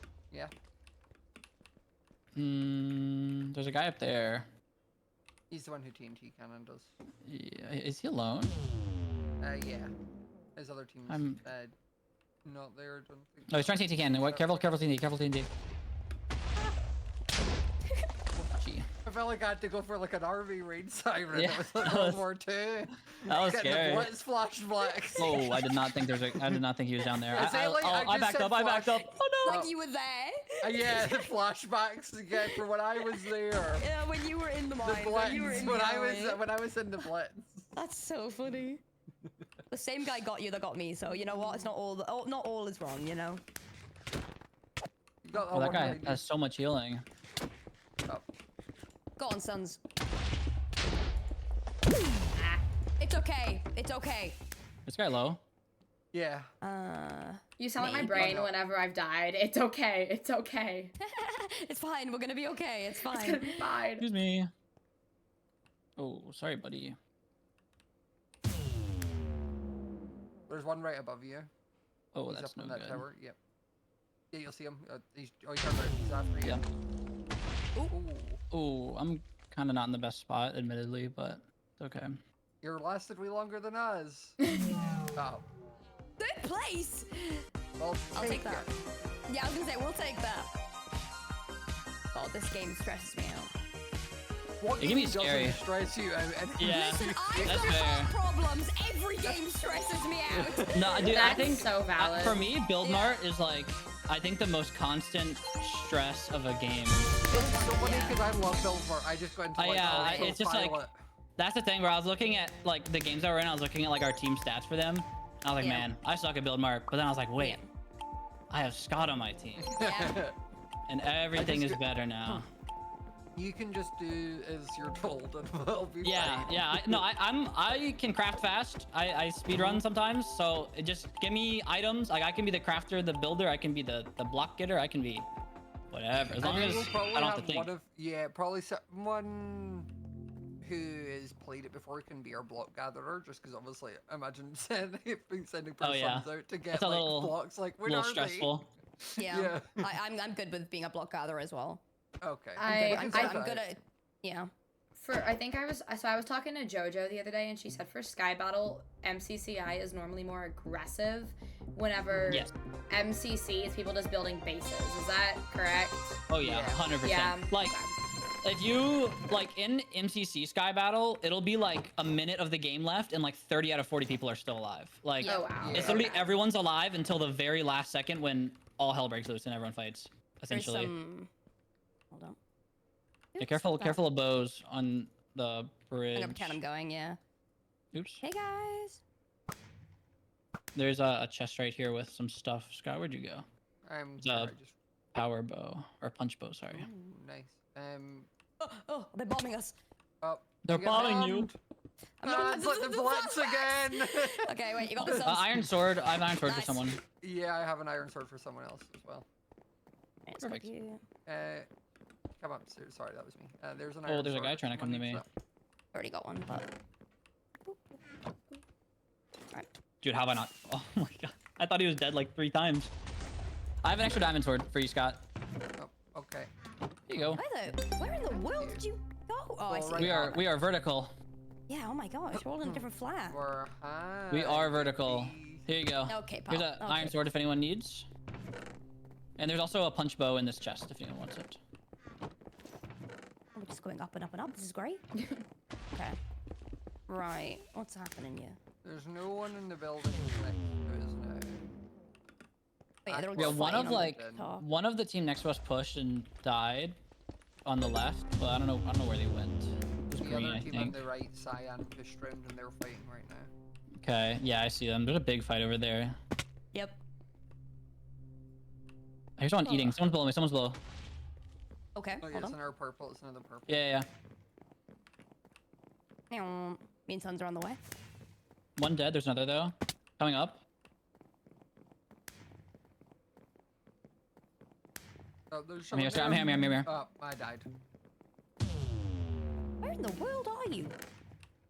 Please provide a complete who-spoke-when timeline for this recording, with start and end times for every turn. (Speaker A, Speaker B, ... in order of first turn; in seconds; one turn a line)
Speaker A: 2.3-4.5
Speaker B: 5.5-6.9
Speaker A: 7.2-8.6
Speaker B: 9.4-9.9
Speaker B: 10.6-11.7
Speaker A: 11.1-11.4
Speaker B: 12.4-14.8
Speaker A: 13.5-15.5
Speaker A: 18.5-18.9
Speaker B: 19.0-25.6
Speaker A: 21.3-22.2
Speaker A: 23.3-24.1
Speaker A: 25.2-29.6
Speaker B: 27.3-29.7
Speaker C: 29.4-31.3
Speaker B: 30.6-33.8
Speaker C: 33.8-36.4
Speaker B: 34.8-37.7
Speaker C: 37.7-38.8
Speaker C: 39.7-43.4
Speaker B: 45.2-46.2
Speaker A: 45.5-47.0
Speaker C: 49.2-49.8
Speaker D: 52.4-52.6
Speaker C: 53.0-54.4
Speaker A: 54.9-55.4
Speaker B: 56.1-56.5
Speaker C: 56.6-58.4
Speaker D: 57.6-60.9
Speaker B: 58.1-58.5
Speaker C: 61.0-63.7
Speaker D: 63.0-64.0
Speaker A: 64.0-64.5
Speaker A: 66.0-67.0
Speaker B: 70.5-71.5
Speaker A: 72.1-73.0
Speaker B: 72.3-73.3
Speaker B: 74.3-76.6
Speaker B: 77.9-78.4
Speaker A: 78.5-82.2
Speaker B: 82.6-84.4
Speaker B: 85.1-85.4
Speaker C: 86.2-87.4
Speaker B: 87.8-88.7
Speaker C: 88.1-88.7
Speaker C: 89.3-90.5
Speaker C: 92.1-93.5
Speaker B: 94.6-97.8
Speaker A: 94.8-95.6
Speaker A: 96.6-98.1
Speaker C: 96.6-101.4
Speaker B: 100.3-100.9
Speaker A: 100.7-107.1
Speaker D: 101.0-102.4
Speaker C: 102.8-103.2
Speaker C: 107.3-108.2
Speaker B: 107.3-110.9
Speaker A: 109.6-110.8
Speaker C: 109.8-110.4
Speaker A: 111.4-117.6
Speaker C: 115.6-115.9
Speaker C: 117.4-117.7
Speaker A: 118.5-119.6
Speaker B: 119.6-120.3
Speaker C: 119.8-120.2
Speaker A: 120.9-122.5
Speaker B: 121.3-121.8
Speaker B: 123.3-127.0
Speaker A: 126.0-135.3
Speaker A: 135.9-137.7
Speaker B: 136.2-139.9
Speaker B: 140.6-149.8
Speaker A: 145.8-148.7
Speaker C: 149.2-151.8
Speaker B: 152.2-153.7
Speaker D: 152.6-153.4
Speaker C: 152.6-154.5
Speaker D: 155.0-166.2
Speaker A: 166.3-167.8
Speaker B: 166.4-166.8
Speaker D: 167.0-167.9
Speaker A: 168.4-180.9
Speaker C: 175.2-175.6
Speaker D: 175.2-176.3
Speaker B: 175.6-176.1
Speaker C: 180.5-181.3
Speaker C: 182.1-182.4
Speaker C: 183.3-184.0
Speaker A: 183.4-186.6
Speaker C: 186.1-187.2
Speaker A: 187.9-188.2
Speaker C: 188.2-189.0
Speaker A: 190.7-193.4
Speaker B: 193.8-194.8
Speaker A: 194.2-194.5
Speaker A: 195.1-196.9
Speaker B: 196.7-198.3
Speaker C: 198.6-199.7
Speaker B: 200.2-201.6
Speaker A: 200.6-201.5
Speaker C: 202.2-205.7
Speaker B: 202.2-205.3
Speaker A: 205.0-207.0
Speaker C: 206.4-206.9
Speaker B: 207.2-209.2
Speaker C: 210.2-211.0
Speaker A: 210.4-210.7
Speaker B: 211.2-211.7
Speaker B: 212.4-215.3
Speaker A: 214.1-215.2
Speaker C: 215.9-216.7
Speaker A: 220.0-222.9
Speaker A: 223.8-225.2
Speaker B: 225.8-226.5
Speaker A: 227.1-227.4
Speaker B: 227.1-227.4
Speaker C: 227.3-230.4
Speaker B: 228.4-228.8
Speaker B: 229.7-230.4
Speaker A: 230.0-231.1
Speaker C: 231.7-233.4
Speaker B: 232.3-235.7
Speaker A: 234.3-238.1
Speaker C: 236.1-237.2
Speaker A: 239.4-241.6
Speaker C: 243.5-245.0
Speaker C: 247.1-248.6
Speaker B: 248.8-251.6
Speaker C: 253.0-254.6
Speaker B: 253.1-254.4
Speaker A: 253.3-257.0
Speaker A: 257.6-261.0
Speaker B: 260.2-263.5
Speaker A: 264.0-266.1
Speaker C: 266.7-267.0
Speaker A: 269.4-270.8
Speaker C: 269.6-270.0
Speaker C: 271.9-272.5
Speaker B: 272.2-273.9
Speaker A: 273.7-274.1
Speaker C: 276.3-277.8
Speaker A: 278.8-280.6
Speaker B: 285.5-287.7
Speaker A: 285.9-286.9
Speaker C: 289.8-290.9